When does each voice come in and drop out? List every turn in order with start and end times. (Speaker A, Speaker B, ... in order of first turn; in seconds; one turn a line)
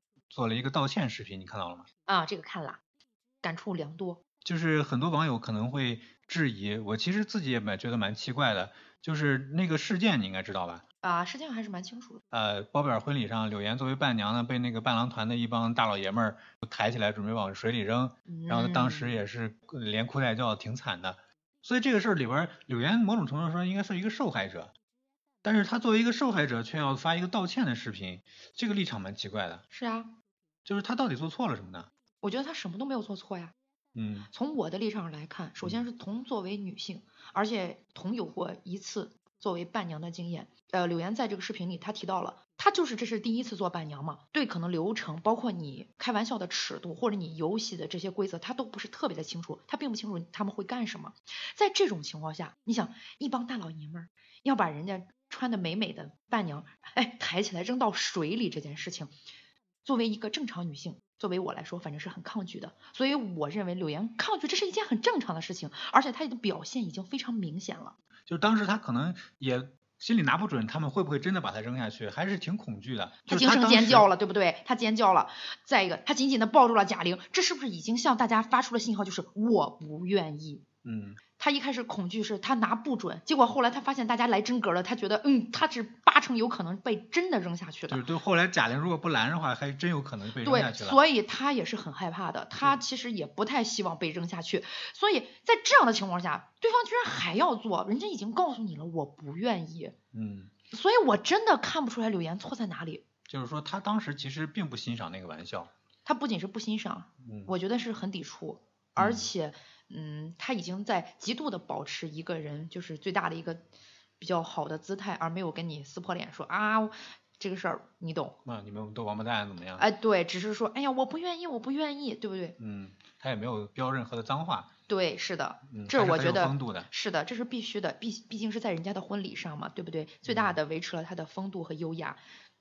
Speaker A: 0.3-1.9
Speaker B: 2.1-2.8
Speaker B: 3.4-4.2
Speaker A: 4.4-10.8
Speaker B: 11.0-12.2
Speaker A: 12.3-24.7
Speaker B: 18.3-19.1
Speaker A: 25.4-29.6
Speaker B: 29.7-30.1
Speaker A: 30.6-31.9
Speaker B: 32.2-33.5
Speaker A: 33.9-34.3
Speaker B: 34.3-59.1
Speaker B: 59.8-68.0
Speaker A: 68.3-74.1
Speaker B: 73.3-80.6
Speaker A: 80.8-81.2
Speaker B: 81.4-88.0
Speaker A: 87.9-91.0
Speaker B: 90.4-99.9
Speaker A: 100.1-100.5
Speaker B: 100.7-103.0
Speaker A: 103.3-105.7
Speaker B: 106.0-113.6
Speaker A: 107.2-107.5
Speaker A: 109.0-109.3
Speaker B: 114.2-118.4
Speaker A: 118.4-119.8
Speaker B: 119.8-122.5
Speaker A: 122.6-124.7
Speaker B: 124.9-132.2
Speaker A: 125.7-126.9
Speaker A: 130.2-130.6